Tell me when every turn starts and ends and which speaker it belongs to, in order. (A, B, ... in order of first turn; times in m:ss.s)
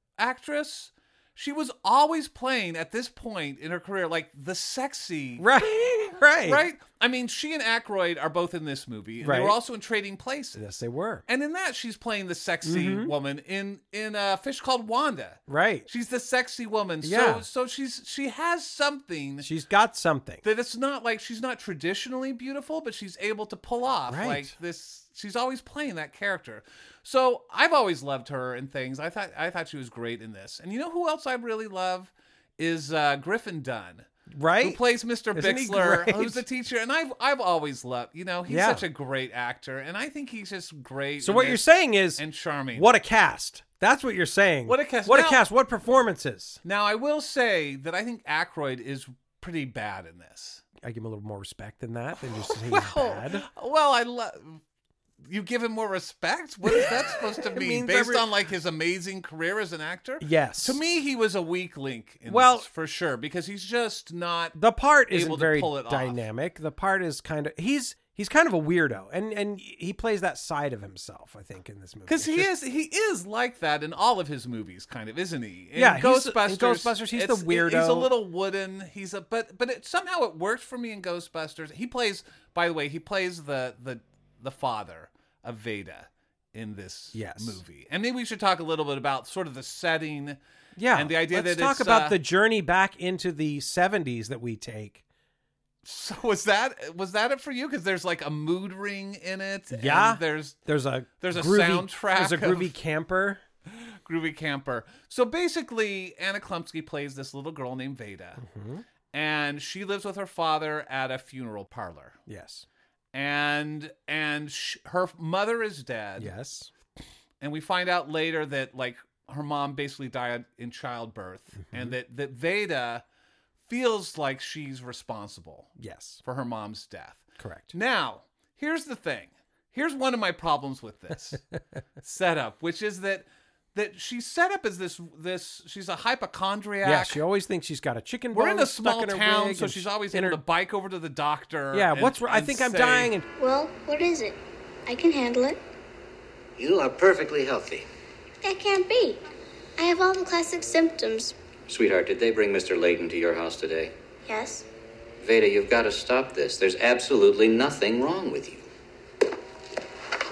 0:00.2-0:05.5 A
0:05.4-0:06.6 B
0:06.4-0:10.6 A
0:09.2-0:09.6 B
0:10.6-0:11.2 B
0:11.3-0:19.5 A
0:12.6-0:13.1 B
0:15.5-0:15.9 B
0:17.0-0:17.4 B
0:19.4-0:20.4 B
0:20.4-0:34.1 A
0:24.1-0:24.5 B
0:34.3-0:34.8 B
0:34.6-0:42.9 A
0:35.3-0:36.4 B
0:38.5-0:38.8 B
0:41.2-0:42.2 B
0:42.7-0:46.6 B
0:44.6-0:45.4 A
0:46.6-0:50.6 A
0:50.8-0:53.5 B
0:52.2-0:54.6 A
0:55.2-1:04.6 A
0:56.7-0:58.2 B
1:00.2-1:00.8 B
1:02.3-1:02.7 B
1:04.6-1:12.5 B
1:05.1-1:06.2 A
1:12.1-1:30.4 A
1:15.8-1:18.1 B
1:27.1-1:27.6 B
1:30.8-1:35.0 B
1:30.9-1:32.2 A
1:35.8-1:40.6 A
1:39.7-1:43.4 B
1:41.2-1:42.7 A
1:43.7-1:48.4 A
1:48.4-1:48.8 B
1:49.1-1:52.2 A
1:52.3-1:52.6 B
1:53.1-1:56.3 A
1:56.2-1:56.7 B
1:57.4-2:03.0 A
2:01.6-2:01.9 B
2:03.7-2:05.7 A
2:05.8-2:06.2 B
2:06.2-2:11.4 A
2:07.4-2:07.7 B
2:12.0-2:17.2 A
2:16.8-2:20.4 B
2:18.3-2:23.1 A
2:21.7-2:23.2 B
2:23.4-2:25.6 C
2:26.6-2:27.9 D
2:28.4-2:29.2 C
2:29.8-2:31.4 C
2:31.7-2:33.9 D
2:34.2-2:34.6 C
2:35.2-2:38.6 D